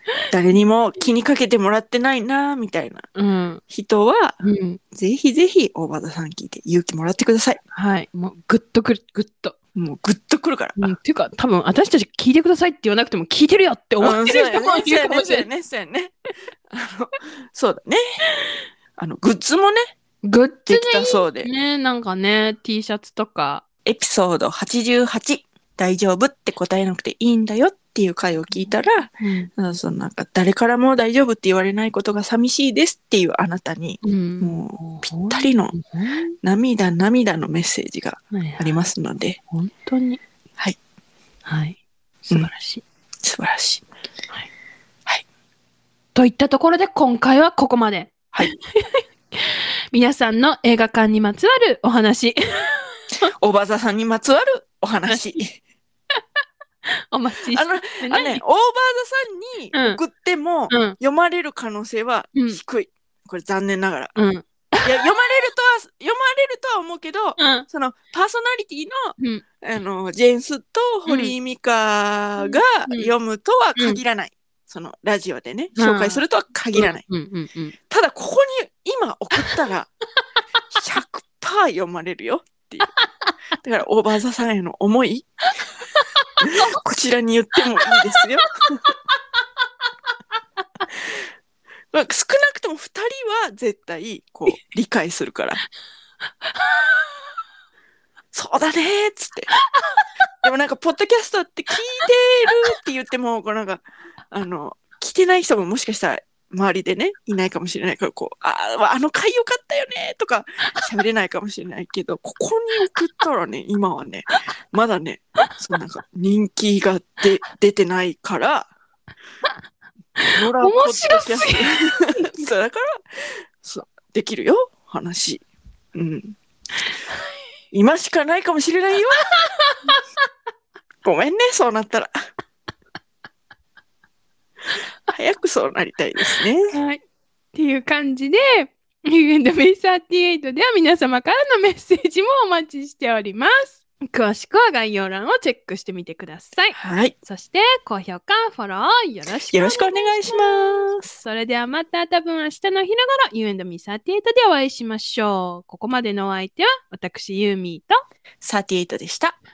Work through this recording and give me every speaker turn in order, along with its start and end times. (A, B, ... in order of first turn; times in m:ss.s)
0:00.3-0:03.0 A
0:03.1-0:03.6 B
0:03.7-0:04.4 A
0:04.4-0:04.8 B
0:04.9-0:07.6 A
0:07.7-0:09.6 B
0:09.7-0:10.9 A
0:10.8-0:15.5 B
0:14.0-0:16.1 A
0:16.7-0:18.0 A
0:19.0-0:19.9 A
0:20.2-0:23.6 B
0:20.7-0:21.5 A
0:23.8-0:35.7 A
0:29.2-0:29.5 B
0:34.0-0:36.3 B
0:36.4-0:39.4 A
0:38.3-0:38.8 B
0:39.5-0:40.2 B
0:41.4-0:42.8 B
0:43.2-0:43.8 A
0:46.1-0:53.3 B
0:53.4-0:55.6 A
0:55.1-0:55.3 B
0:56.8-0:58.4 B
0:57.5-1:04.1 A
0:59.7-1:00.0 B
1:00.7-1:01.0 B
1:02.3-1:02.6 B
1:04.2-1:05.4 B
1:04.8-1:17.0 A
1:07.4-1:07.7 B
1:09.2-1:09.4 B
1:11.1-1:11.3 B
1:12.4-1:13.1 B
1:15.8-1:16.2 B
1:16.7-1:17.7 B
1:17.9-1:19.9 A
1:20.7-1:22.9 A
1:23.6-1:25.3 A
1:25.9-1:26.7 B
1:26.4-1:28.9 A
1:27.8-1:29.2 B
1:31.9-1:35.6 A
1:36.4-1:37.3 B
1:38.3-1:39.5 A
1:39.5-1:40.1 B
1:40.4-1:58.7 A
2:00.2-2:02.5 B
2:00.3-2:05.4 A
2:05.9-2:06.4 A
2:07.7-2:09.3 A
2:09.3-2:10.0 B
2:11.0-2:12.1 A
2:15.1-2:16.8 A
2:16.4-2:17.0 B
2:17.5-2:38.0 B
2:26.8-2:27.1 A
2:29.5-2:31.1 A
2:38.4-2:39.4 A